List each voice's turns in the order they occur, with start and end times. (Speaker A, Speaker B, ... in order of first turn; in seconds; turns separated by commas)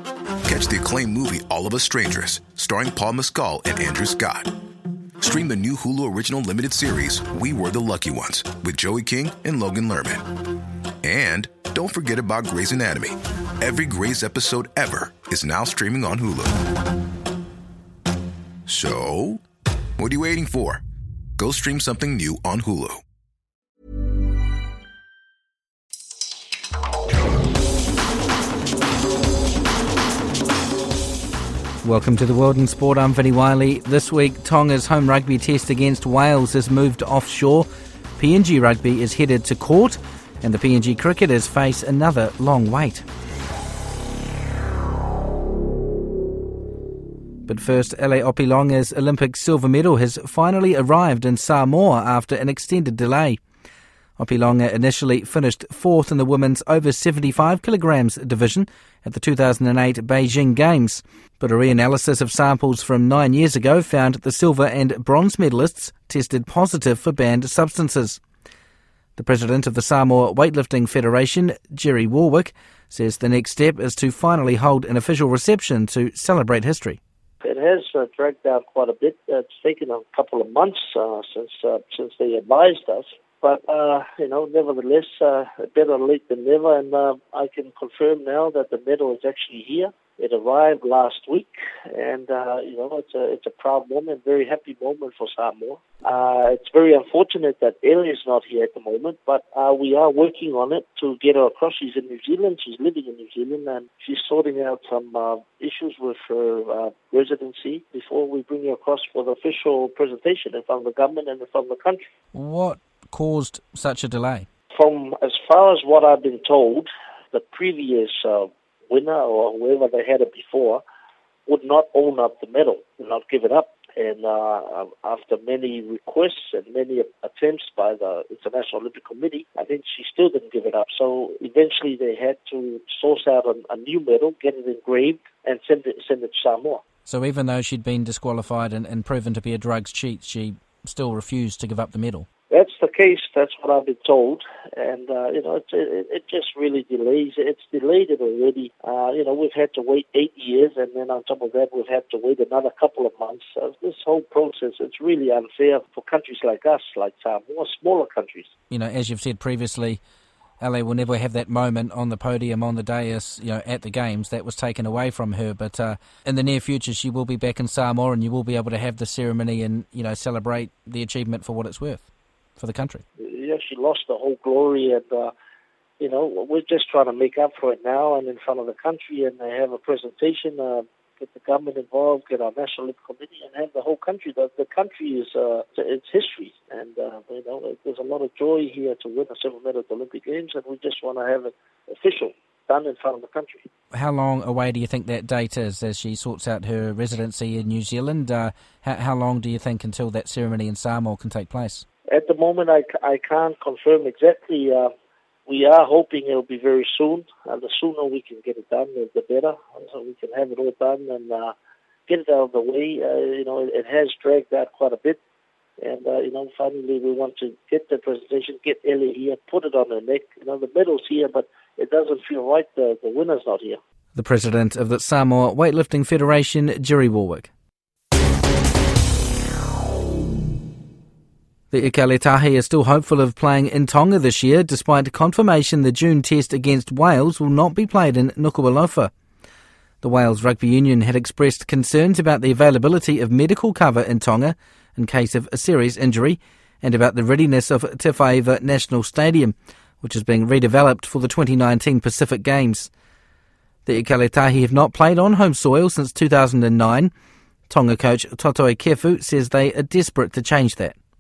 Speaker A: 0.5-4.5, Speaker A: 5.2-10.2, Speaker A: 11.0-16.6, Speaker A: 18.7-19.4, Speaker A: 20.0-20.8, Speaker A: 21.4-23.0, Speaker B: 31.8-43.0, Speaker B: 47.5-53.4, Speaker B: 54.2-68.2, Speaker B: 69.2-77.0, Speaker C: 77.4-112.1, Speaker B: 112.3-114.5, Speaker C: 114.7-120.8, Speaker C: 121.5-136.8, Speaker B: 137.1-142.3, Speaker C: 142.5-158.5, Speaker B: 158.7-160.0, Speaker B: 160.6-173.0, Speaker C: 173.2-175.3, Speaker C: 176.0-193.7, Speaker B: 193.9-201.8, Speaker C: 202.1-204.9, Speaker C: 205.5-211.5, Speaker C: 212.1-215.2, Speaker C: 215.8-223.8, Speaker B: 224.2-227.5, Speaker B: 231.7-239.1, Speaker B: 240.0-252.9, Speaker B: 253.9-257.1, Speaker B: 257.7-261.0